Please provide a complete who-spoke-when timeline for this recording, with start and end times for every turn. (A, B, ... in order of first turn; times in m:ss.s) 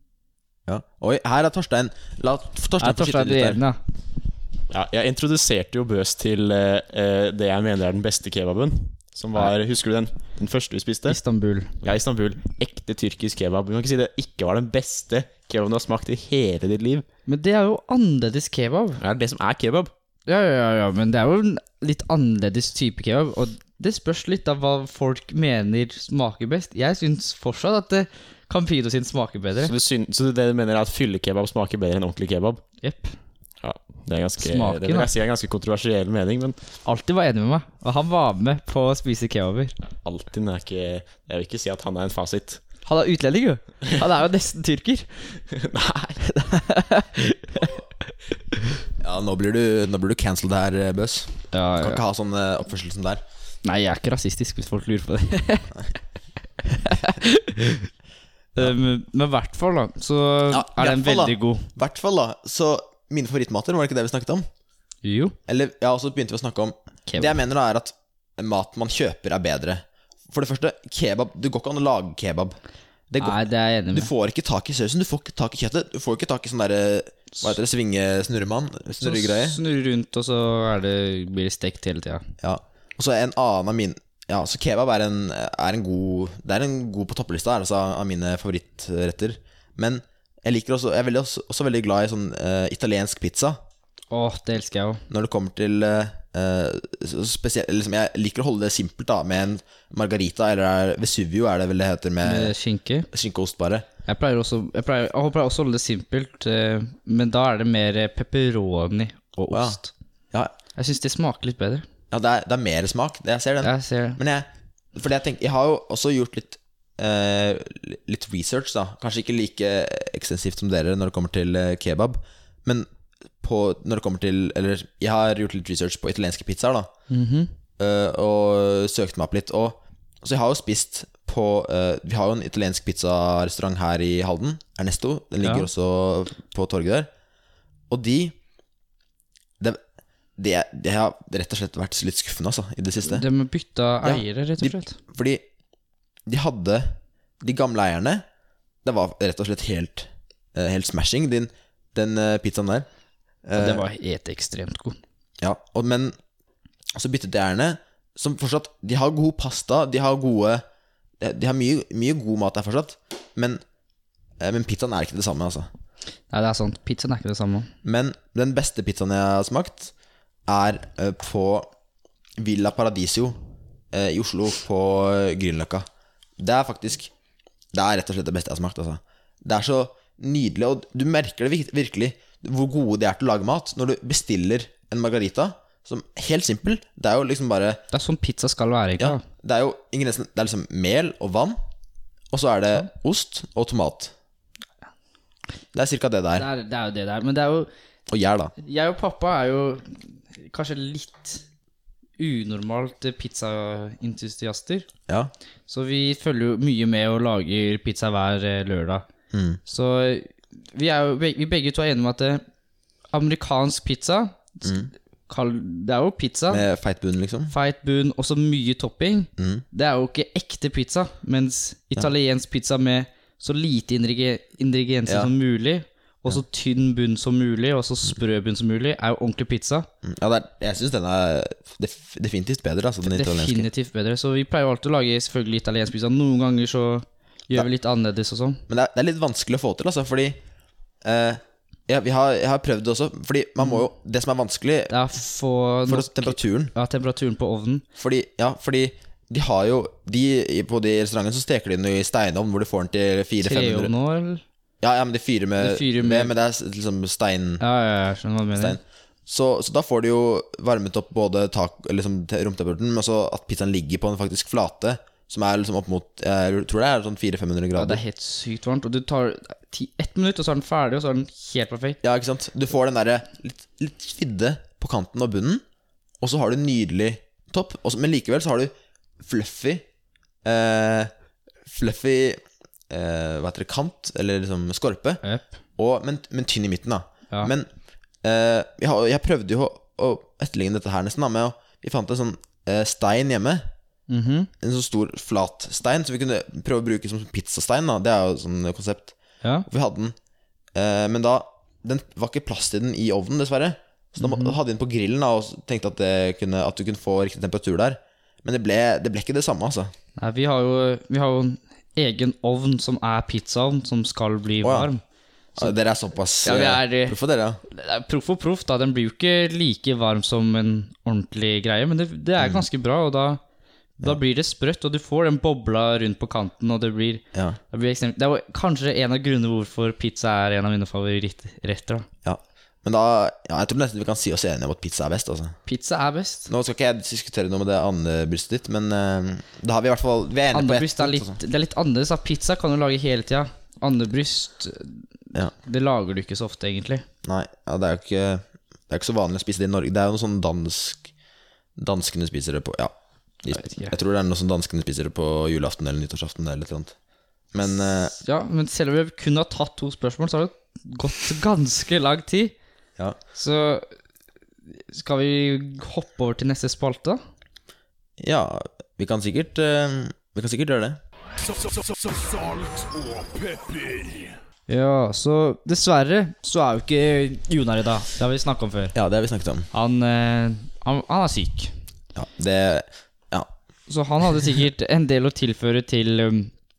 0:00.7-0:03.6 A
0:02.8-0:03.8 B
0:04.7-0:11.2 C
0:11.1-0:11.7 B
0:11.8-0:17.1 C
0:17.3-0:19.0 B
0:19.0-0:19.9 C
0:20.3-0:29.7 B
0:29.6-0:32.6 C
0:32.8-0:33.2 B
0:33.6-0:36.6 C
0:34.4-0:35.1 B
0:36.8-0:39.8 B
0:40.0-0:42.6 C
0:42.8-0:45.4 B
0:45.5-0:46.2 C
0:46.2-0:47.8 B
0:49.0-0:53.2 A
0:51.5-0:52.0 B
0:53.6-0:55.8 B
0:56.6-0:57.9 B
0:58.6-1:01.7 B
1:00.5-1:04.4 A
1:05.0-1:05.4 B
1:05.5-1:12.6 A
1:07.1-1:07.4 B
1:13.1-1:13.4 A
1:13.2-1:14.1 B
1:13.9-1:19.6 A
1:19.0-1:22.3 B
1:22.4-1:33.6 A
1:34.1-1:35.0 B
1:35.1-1:42.5 A
1:42.2-1:43.1 B
1:43.1-1:43.9 A
1:44.0-1:49.9 B
1:49.5-1:49.8 A
1:50.8-1:51.8 B
1:52.1-2:02.9 A
1:53.6-1:54.2 B
2:03.4-2:06.9 A
2:07.1-2:07.5 B
2:07.8-2:17.1 A
2:15.4-2:15.7 B
2:17.9-2:18.4 A
2:20.4-2:23.3 A
2:23.0-2:25.0 B
2:24.0-2:25.4 A
2:26.3-2:28.2 A
2:28.8-2:32.9 A
2:33.4-2:33.9 A
2:33.6-2:35.0 B
2:35.4-2:36.2 A
2:37.0-2:40.6 A
2:41.2-2:43.6 A
2:44.4-2:45.7 A
2:46.3-2:47.7 B
2:47.8-2:49.9 A
2:50.5-2:51.7 A
2:52.4-2:53.4 A
2:53.9-2:55.9 A
2:56.4-2:57.1 A
2:57.7-3:07.8 A
3:07.9-3:09.2 B
3:09.0-3:11.6 A
3:12.3-3:14.1 A
3:15.7-3:16.5 A
3:16.4-3:17.7 B
3:18.1-3:18.5 A
3:18.6-3:21.4 B
3:22.2-3:24.9 B
3:25.7-3:29.1 B
3:29.3-3:29.6 A
3:29.7-3:32.4 B
3:33.1-3:34.7 B
3:34.6-3:34.9 A
3:35.3-3:36.6 B
3:36.5-3:37.5 A
3:37.5-3:49.9 B
3:39.4-3:39.6 A
3:50.0-3:53.7 A
3:53.0-3:58.6 B
3:58.7-4:00.4 A
4:01.0-4:04.9 A
4:04.9-4:07.8 B
4:05.9-4:06.7 A
4:08.0-4:13.9 A
4:13.4-4:14.4 B
4:14.8-4:17.6 A
4:15.6-4:16.3 B
4:17.6-4:18.8 B
4:18.6-4:28.0 A
4:27.8-4:32.0 B
4:32.0-4:35.6 A
4:36.2-4:39.8 A
4:40.4-4:41.1 A
4:41.6-4:45.2 A
4:45.2-4:45.5 B
4:45.8-4:47.7 A
4:48.2-4:53.7 A
4:54.1-4:54.5 B
4:54.6-4:59.2 A
4:59.7-5:00.2 A
5:00.8-5:09.9 A
5:04.2-5:04.6 B
5:10.2-5:15.0 B
5:14.6-5:14.9 A
5:15.6-5:17.6 A
5:16.4-5:23.4 B
5:22.4-5:22.6 A
5:24.0-5:32.1 B
5:32.2-5:35.6 A
5:35.7-5:36.5 B
5:36.5-5:41.4 A
5:40.5-5:47.0 B
5:47.2-5:51.1 A
5:51.8-5:52.9 A
5:53.4-5:57.0 A
5:53.5-5:54.0 B
5:57.5-5:58.2 A
5:58.2-6:02.6 B
6:03.4-6:03.9 B
6:04.7-6:07.2 B
6:08.2-6:11.0 A
6:11.4-6:14.4 D
6:14.7-6:19.0 B
6:18.9-6:19.7 A
6:19.7-6:21.7 B
6:22.2-6:23.5 A
6:23.9-6:26.5 B